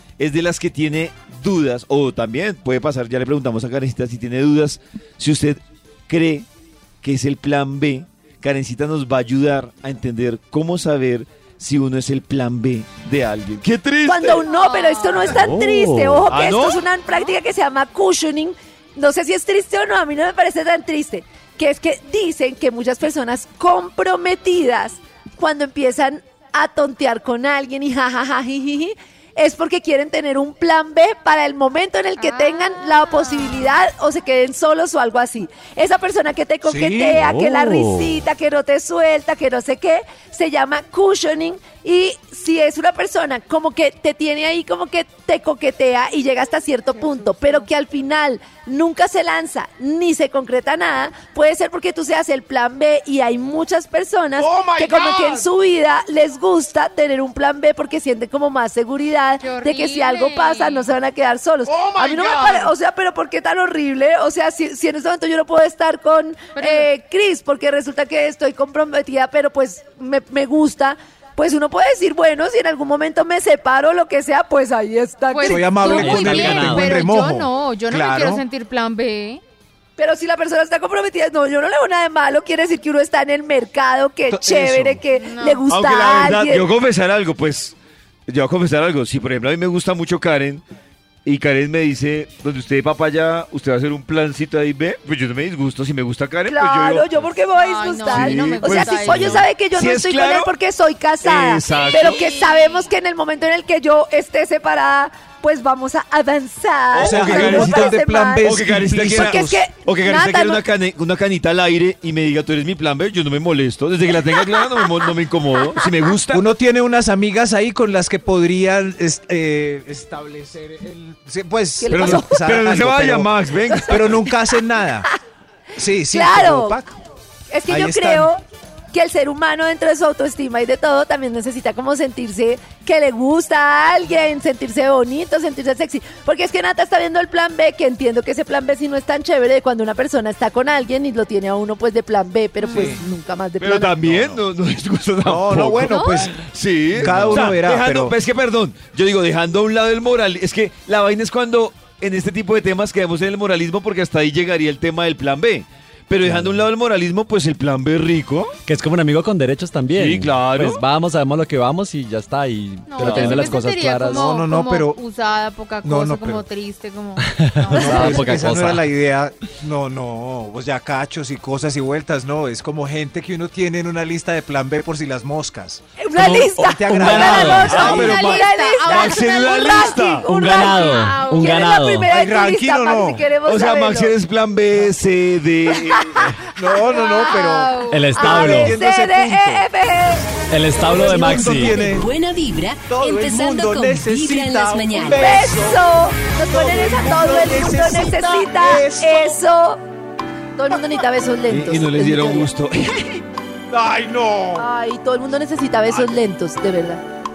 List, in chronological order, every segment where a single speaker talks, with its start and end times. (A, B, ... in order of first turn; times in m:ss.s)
0:00.2-0:06.5 A
0:07.0-0:14.4 A
0:14.1-1:16.7 B
0:14.5-0:15.4 C
0:15.3-0:16.3 D
0:16.3-0:16.8 A
0:32.2-0:33.2 C
0:36.6-0:37.2 E
0:37.1-0:38.2 D
0:47.0-0:47.6 C
0:59.4-1:00.9 C
1:06.6-1:06.9 C
1:15.3-1:19.4 C
1:15.4-1:18.4 E
1:15.9-1:17.0 D
1:20.0-1:26.7 B
1:24.3-1:25.0 E
1:25.1-1:25.6 C
1:25.7-1:27.8 A
1:28.3-1:30.6 A
1:31.2-1:37.1 A
1:36.5-1:48.6 B
1:37.6-1:39.5 C
1:38.1-1:40.5 A
1:41.2-1:42.2 A
1:41.7-1:42.9 C
1:46.9-1:49.6 E
1:46.9-1:56.4 A
1:49.1-1:50.6 B
1:56.3-2:03.3 E
2:01.8-2:02.5 B
2:01.9-2:04.2 A
2:03.7-2:04.2 B
2:03.8-2:05.1 E
2:05.8-2:07.0 E
2:06.1-2:06.8 B
2:07.5-2:08.4 B
2:07.7-2:08.3 E
2:08.9-2:24.2 B
2:22.6-2:23.0 C
2:22.7-2:23.0 E
2:23.6-2:38.6 A
2:25.2-2:26.4 E
2:25.9-2:26.3 C
2:26.9-2:28.1 E
2:36.2-2:36.7 D
2:38.7-2:44.3 D
2:39.9-2:40.8 A
2:42.9-2:48.4 C
2:43.0-2:43.4 A
2:44.1-2:45.0 E
2:45.8-2:46.4 E
2:47.2-2:48.8 D
2:47.7-2:55.8 E
2:56.0-3:04.2 B
2:56.2-2:57.9 D
2:56.5-2:58.2 E
2:57.6-3:01.6 C
2:57.6-3:00.3 A
3:00.3-3:02.1 D
3:02.1-3:03.2 E
3:03.4-3:06.3 A
3:06.5-3:09.7 E
3:06.9-3:08.1 C
3:07.9-3:08.8 D
3:08.2-3:10.3 B
3:10.5-3:11.8 D
3:10.8-3:12.1 E
3:11.2-3:11.7 B
3:11.3-3:15.3 F
3:12.9-3:15.9 E
3:15.1-3:19.8 B
3:16.4-3:19.4 E
3:20.6-3:22.5 B
3:21.5-3:23.2 A
3:23.7-3:24.7 E
3:24.6-3:27.0 B